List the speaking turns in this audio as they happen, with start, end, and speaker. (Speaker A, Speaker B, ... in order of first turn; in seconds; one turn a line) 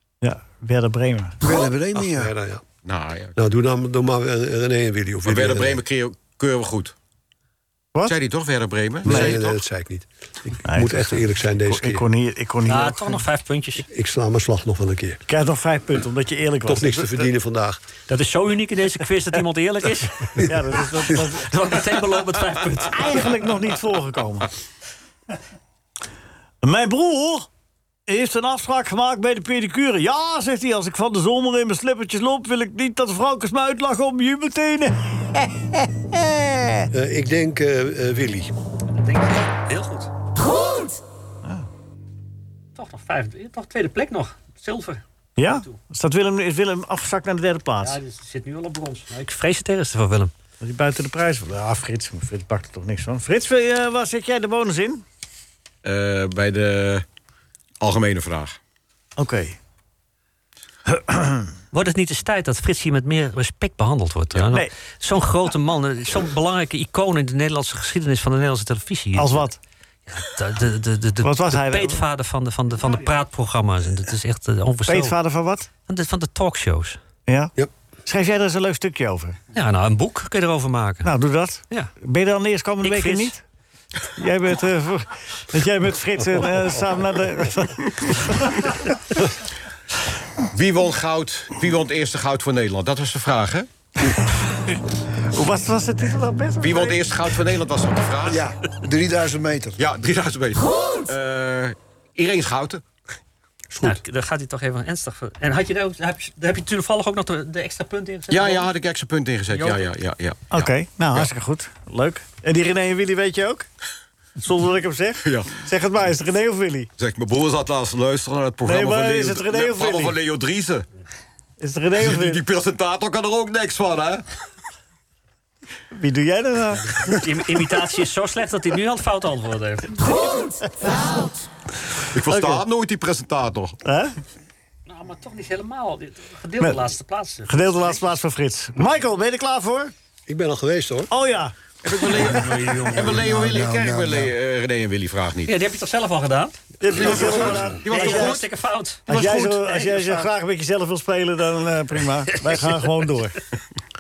Speaker A: 0.2-1.4
Speaker B: 1.4-2.3
Speaker C: 1.9-2.6
Speaker D: 2.8-3.4
Speaker C: 3.3-5.8
Speaker D: 5.2-6.9
Speaker D: 8.1-9.6
Speaker C: 9.0-12.1
Speaker A: 9.1-9.4
Speaker A: 10.6-13.2
Speaker E: 12.7-13.8
Speaker C: 13.9-15.2
Speaker A: 15.3-17.3
Speaker C: 16.6-17.8
Speaker E: 18.1-20.5
Speaker A: 20.4-21.4
Speaker E: 21.1-23.2
Speaker A: 22.9-24.5
Speaker A: 26.6-27.5
Speaker A: 28.1-36.9
Speaker C: 36.9-38.5
Speaker E: 38.9-40.1
Speaker E: 42.7-45.8
Speaker A: 45.4-48.0
Speaker E: 47.8-50.3
Speaker A: 50.6-55.0
Speaker D: 55.8-57.0
Speaker D: 57.8-58.6
Speaker A: 59.2-59.5
Speaker A: 60.9-61.5
Speaker E: 61.7-69.5
Speaker A: 69.2-69.6
Speaker E: 70.1-75.2
Speaker A: 71.2-72.0
Speaker A: 74.9-75.7
Speaker E: 75.9-77.0
Speaker A: 77.3-77.5
Speaker A: 78.0-79.4
Speaker E: 79.5-81.1
Speaker A: 81.0-83.4
Speaker E: 82.8-83.3
Speaker A: 84.1-88.9
Speaker D: 90.5-93.7
Speaker A: 95.3-97.0
Speaker D: 96.6-98.4
Speaker B: 98.2-99.8
Speaker D: 99.8-102.8
Speaker C: 103.7-104.0
Speaker E: 103.8-108.7
Speaker D: 108.3-111.3
Speaker E: 109.5-109.8
Speaker A: 110.5-113.7
Speaker A: 114.4-116.9
Speaker D: 115.2-115.5
Speaker D: 117.0-120.8
Speaker A: 118.6-120.2
Speaker A: 121.6-122.4
Speaker D: 122.0-124.2
Speaker A: 125.9-127.2
Speaker E: 127.2-130.2
Speaker A: 130.8-131.1
Speaker D: 132.1-133.8
Speaker A: 132.3-132.6
Speaker A: 133.8-134.1
Speaker E: 134.9-137.8
Speaker A: 137.5-139.9
Speaker C: 140.3-141.1
Speaker A: 141.1-141.5
Speaker D: 141.8-145.5
Speaker E: 142.1-143.3
Speaker B: 143.3-144.3
Speaker E: 145.4-149.8
Speaker A: 146.8-148.4
Speaker D: 147.8-148.4
Speaker A: 149.1-153.4
Speaker B: 149.1-149.6